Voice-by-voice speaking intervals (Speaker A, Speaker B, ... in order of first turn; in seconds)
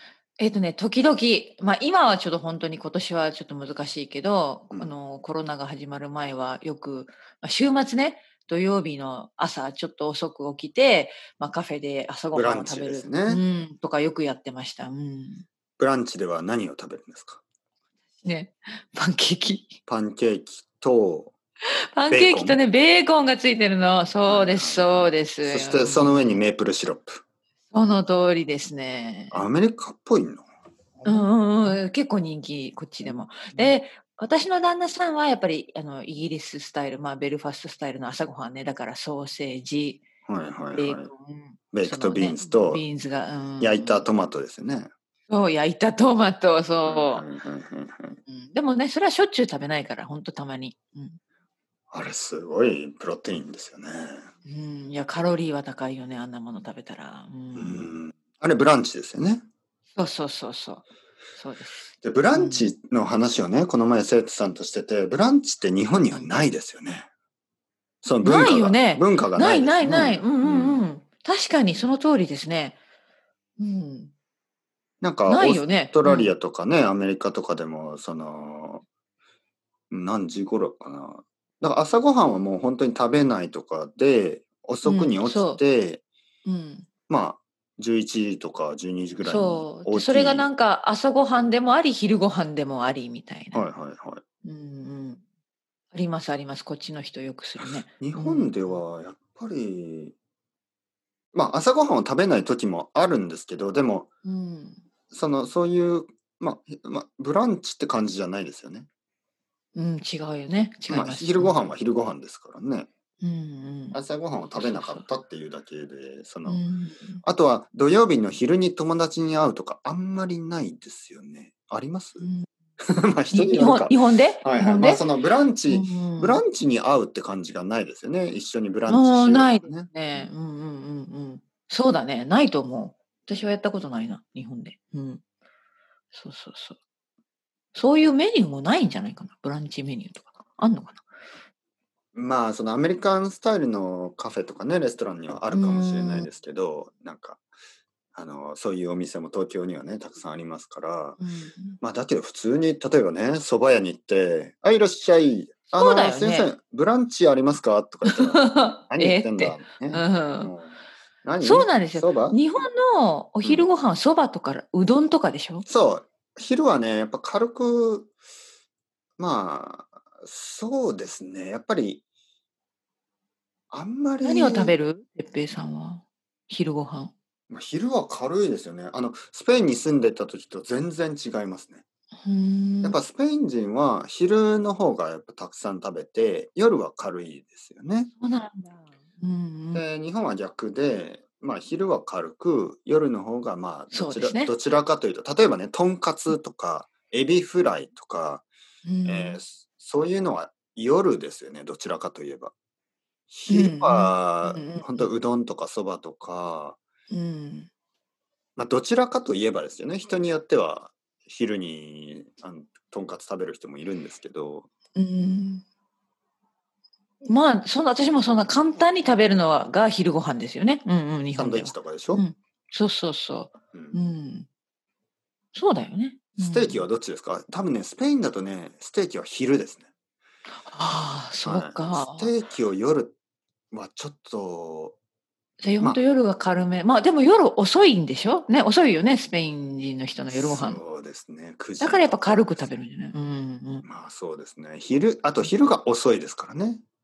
Speaker A: 0.4-15.4, 18.2-19.8, 21.9-26.4, 27.7-29.4, 31.0-40.0, 40.7-44.0, 45.3-47.2, 48.3-51.2, 54.5-57.9, 59.9-60.9, 61.4-62.7, 66.1-66.4, 68.2-72.8, 73.6-74.1, 75.3-76.3, 84.8-85.6, 86.4-86.9, 89.2-93.6, 94.4-95.2, 95.9-98.8, 104.2-104.8, 109.7-111.8, 113.2-114.0, 114.5-115.0, 116.5-117.2, 122.2-122.5, 123.3-125.0, 125.7-126.4, 128.9-135.2, 136.1-136.8, 137.7-141.0, 145.5-146.3, 151.2-151.8, 155.7-156.5, 158.1-160.5, 161.4-165.6, 174.2-177.1, 182.2-183.0, 188.1-189.8, 193.9-194.5, 198.8-199.4, 203.5-205.1, 207.1-207.7, 214.9-215.6, 217.2-224.5, 225.5-226.8, 230.5-232.3, 235.6-240.8, 241.8-243.8
Speaker B: 12.3-13.4, 15.8-17.4, 19.9-21.3, 22.1-22.6, 24.2-27.2, 29.3-31.8, 40.3-41.1, 41.7-42.8, 43.6-44.9, 46.8-48.2, 51.9-54.2, 57.5-59.4, 61.9-67.1, 68.0-70.8, 75.0-78.8, 79.9-86.0, 87.1-90.5, 93.5-94.2, 97.6-100.1, 101.3-104.1, 105.1-108.9, 110.9-112.9, 113.9-116.6, 117.2-122.3, 122.8-129.9, 142.1-147.4, 148.1-151.2, 151.8-162.4, 165.7-168.1, 169.2-172.0, 173.7-174.8, 177.5-181.8, 182.8-188.1, 189.7-198.5, 199.0-202.5, 203.3-206.8, 208.6-214.7, 221.3-222.2, 223.7-224.0, 226.4-229.9, 231.4-233.1, 233.7-235.0, 240.3-242.7, 243.8-246.8